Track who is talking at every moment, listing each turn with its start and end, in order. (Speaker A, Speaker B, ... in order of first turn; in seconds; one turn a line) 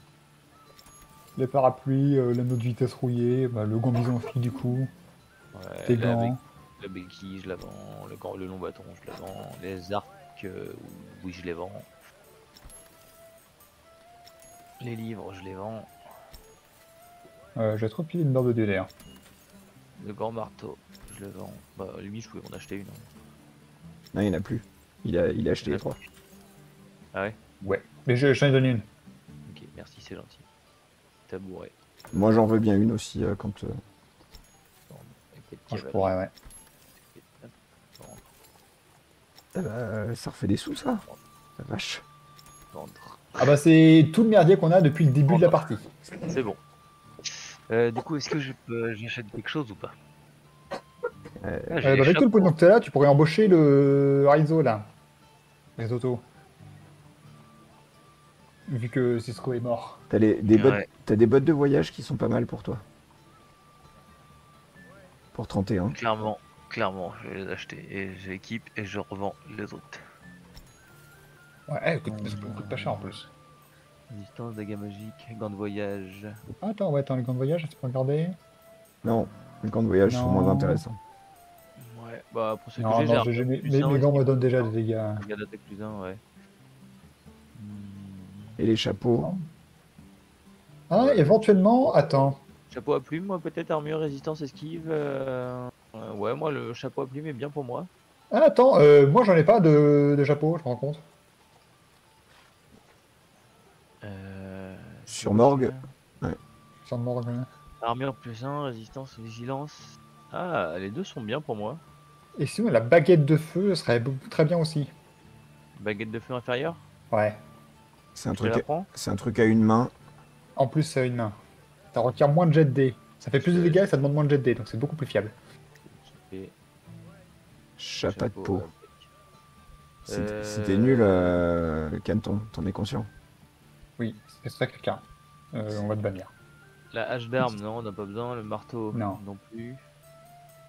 Speaker A: 1.4-4.9
Speaker B: 5.5-11.9
Speaker A: 5.9-6.4
Speaker B: 14.8-15.9
Speaker A: 17.6-18.9
Speaker B: 20.0-23.1
Speaker C: 24.1-26.0
Speaker B: 25.6-26.0
Speaker A: 27.6-28.9
Speaker B: 29.4-30.4
Speaker B: 31.3-31.7
Speaker C: 32.1-33.8
Speaker B: 34.9-36.1
Speaker A: 35.7-36.3
Speaker B: 37.1-38.2
Speaker C: 39.5-41.0
Speaker C: 41.6-42.0
Speaker B: 42.7-43.3
Speaker A: 43.4-45.9
Speaker B: 45.3-45.6
Speaker B: 46.2-46.6
Speaker B: 47.2-49.9
Speaker C: 51.4-51.8
Speaker B: 51.7-52.5
Speaker A: 51.8-54.9
Speaker A: 55.8-56.2
Speaker A: 58.7-60.0
Speaker C: 60.1-62.8
Speaker B: 60.5-60.9
Speaker C: 65.3-66.0
Speaker B: 65.9-70.0
Speaker A: 71.7-73.3
Speaker B: 72.1-73.2
Speaker B: 74.1-76.4
Speaker A: 76.6-78.4
Speaker C: 79.0-81.0
Speaker A: 80.0-80.8
Speaker B: 81.8-86.2
Speaker A: 82.8-85.2
Speaker B: 87.5-88.6
Speaker C: 88.6-89.3
Speaker A: 89.2-89.5
Speaker A: 90.9-92.4
Speaker B: 90.9-91.3
Speaker B: 92.7-97.9
Speaker A: 98.3-101.0
Speaker B: 104.0-105.9
Speaker C: 105.1-106.4
Speaker A: 106.8-107.5
Speaker B: 107.8-111.8
Speaker A: 112.4-114.9
Speaker B: 115.8-116.8
Speaker A: 117.1-117.4
Speaker C: 118.1-119.9
Speaker B: 118.3-118.9
Speaker A: 120.5-121.3
Speaker A: 121.9-125.3
Speaker B: 123.4-123.9
Speaker B: 125.8-126.5
Speaker C: 127.8-128.7
Speaker B: 128.1-129.1
Speaker B: 130.1-131.4
Speaker C: 130.1-133.1
Speaker A: 134.0-136.3
Speaker B: 136.9-139.8
Speaker A: 138.9-139.2